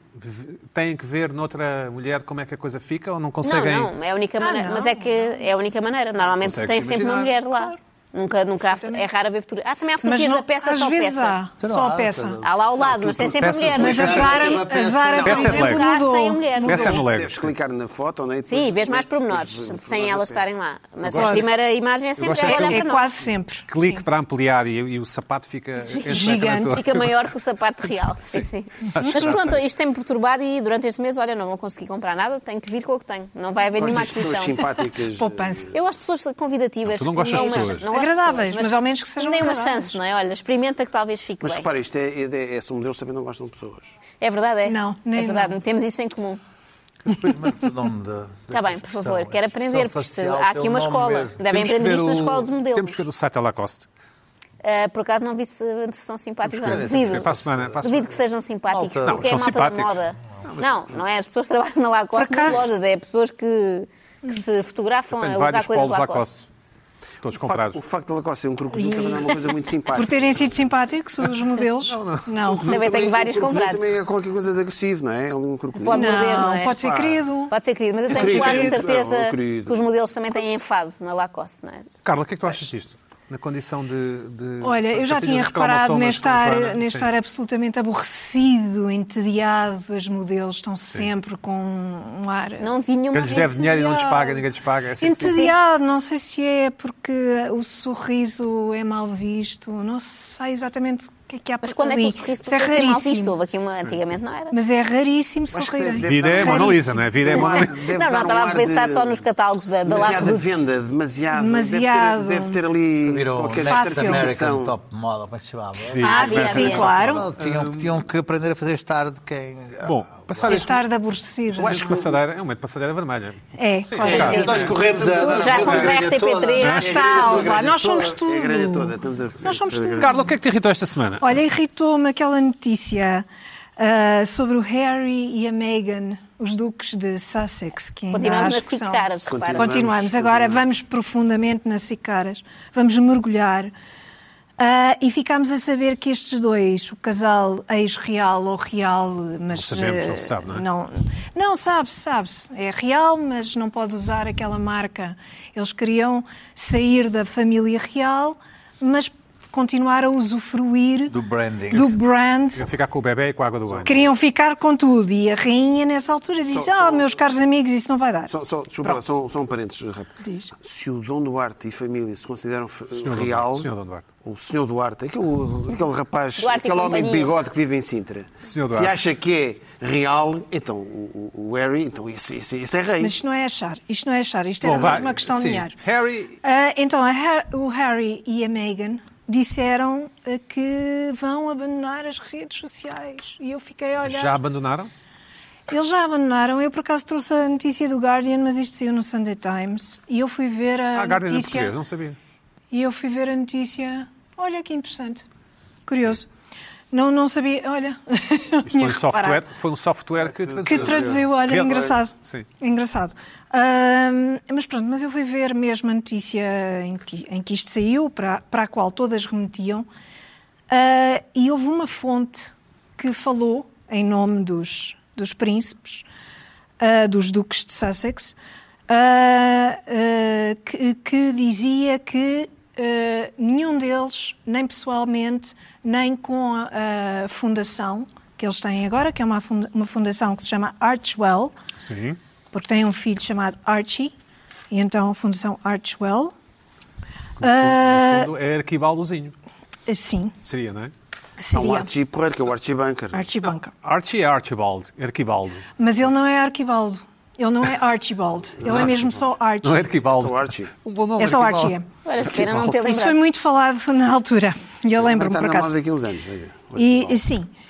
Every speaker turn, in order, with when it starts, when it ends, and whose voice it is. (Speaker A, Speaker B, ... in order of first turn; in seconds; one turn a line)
Speaker A: 0.1-3.9
Speaker B: 3.4-11.4
Speaker C: 4.4-5.4
Speaker A: 6.4-7.3
Speaker C: 8.7-9.1
Speaker C: 10.0-12.4
Speaker D: 11.6-12.4
Speaker B: 12.4-14.6
Speaker E: 12.8-15.5
Speaker A: 13.3-14.3
Speaker C: 13.8-17.0
Speaker D: 13.8-15.6
Speaker A: 15.2-15.9
Speaker B: 15.3-17.0
Speaker A: 16.6-17.5
Speaker E: 16.8-20.4
Speaker B: 18.5-23.1
Speaker A: 21.0-21.4
Speaker C: 21.1-21.4
Speaker A: 22.2-22.9
Speaker C: 22.4-24.0
Speaker A: 23.7-27.1
Speaker C: 26.0-26.8
Speaker B: 26.7-34.6
Speaker A: 28.3-29.6
Speaker E: 33.8-35.7
Speaker C: 35.1-35.7
Speaker B: 35.7-41.7
Speaker A: 36.9-37.9
Speaker C: 37.3-40.0
Speaker E: 41.4-43.9
Speaker B: 44.2-46.4
Speaker C: 44.6-45.6
Speaker D: 47.0-51.4
Speaker B: 48.5-53.0
Speaker A: 51.5-53.9
Speaker B: 54.6-57.3
Speaker A: 56.6-58.1
Speaker D: 56.6-57.7
Speaker B: 57.8-66.3
Speaker D: 58.7-59.4
Speaker A: 59.0-60.7
Speaker C: 62.2-62.7
Speaker A: 65.1-66.5
Speaker A: 67.2-67.8
Speaker E: 67.3-70.6
Speaker C: 68.8-69.4
Speaker C: 69.9-72.7
Speaker A: 71.8-72.3
Speaker E: 72.4-77.2
Speaker B: 72.7-73.9
Speaker B: 75.8-76.8
Speaker C: 75.9-77.5
Speaker B: 77.5-81.9
Speaker E: 78.1-79.8
Speaker C: 78.1-78.5
Speaker A: 82.0-87.1
Speaker C: 84.6-92.7
Speaker B: 92.6-93.6
Speaker A: 93.1-95.4
Speaker C: 93.6-94.4
Speaker C: 95.0-103.3
Speaker B: 101.6-104.5
Speaker C: 104.5-107.0
Speaker E: 105.5-109.2
Speaker A: 106.0-107.8
Speaker B: 107.3-110.5
Speaker E: 109.8-114.7
Speaker C: 111.3-112.6
Speaker D: 113.1-120.6
Speaker C: 113.7-114.3
Speaker A: 115.9-118.0
Speaker B: 116.0-116.9
Speaker C: 116.0-117.3
Speaker A: 119.8-120.8
Speaker C: 120.5-122.0
Speaker E: 121.5-122.1
Speaker A: 121.6-124.8
Speaker C: 123.6-124.5
Speaker E: 124.0-126.0
Speaker D: 124.0-128.1
Speaker B: 124.1-127.0
Speaker A: 125.6-125.9
Speaker A: 126.6-126.9
Speaker C: 126.6-130.3
Speaker E: 126.8-130.2
Speaker A: 130.0-131.3
Speaker C: 131.2-133.2
Speaker C: 133.8-143.7
Speaker B: 138.1-139.7
Speaker E: 139.3-140.7
Speaker C: 144.6-161.1
Speaker A: 149.5-150.6
Speaker D: 161.1-161.9
Speaker C: 161.7-162.6
Speaker A: 162.5-164.1
Speaker C: 163.8-168.3
Speaker E: 166.5-167.1
Speaker E: 168.3-173.7
Speaker A: 172.9-174.0
Speaker E: 174.2-183.2
Speaker B: 176.4-177.3
Speaker A: 178.5-179.0
Speaker C: 183.0-185.7
Speaker A: 184.6-186.4
Speaker C: 186.4-194.4
Speaker A: 194.0-194.9
Speaker C: 195.7-201.7
Speaker A: 200.9-202.2
Speaker C: 202.7-205.2
Speaker C: 205.9-206.3
Speaker C: 206.9-209.4
Speaker A: 208.7-212.4
Speaker E: 210.6-211.2
Speaker C: 210.6-219.8
Speaker C: 220.7-226.0
Speaker C: 226.8-228.3
Speaker C: 228.9-241.5
Speaker A: 241.8-242.2
Speaker C: 242.5-244.1
Speaker C: 244.7-246.3
Speaker A: 247.4-249.3
Speaker C: 247.4-248.3
Speaker C: 249.9-250.3
Speaker A: 250.4-250.9
Speaker C: 251.4-251.9
Speaker E: 251.5-253.3
Speaker C: 253.1-253.7
Speaker A: 253.8-255.7
Speaker C: 255.8-259.8
Speaker E: 258.6-259.0
Speaker A: 258.6-258.9
Speaker A: 259.6-261.8
Speaker E: 260.0-260.7
Speaker C: 261.2-261.9
Speaker B: 262.0-263.2
Speaker C: 262.4-265.7
Speaker E: 264.9-267.2
Speaker C: 266.8-267.5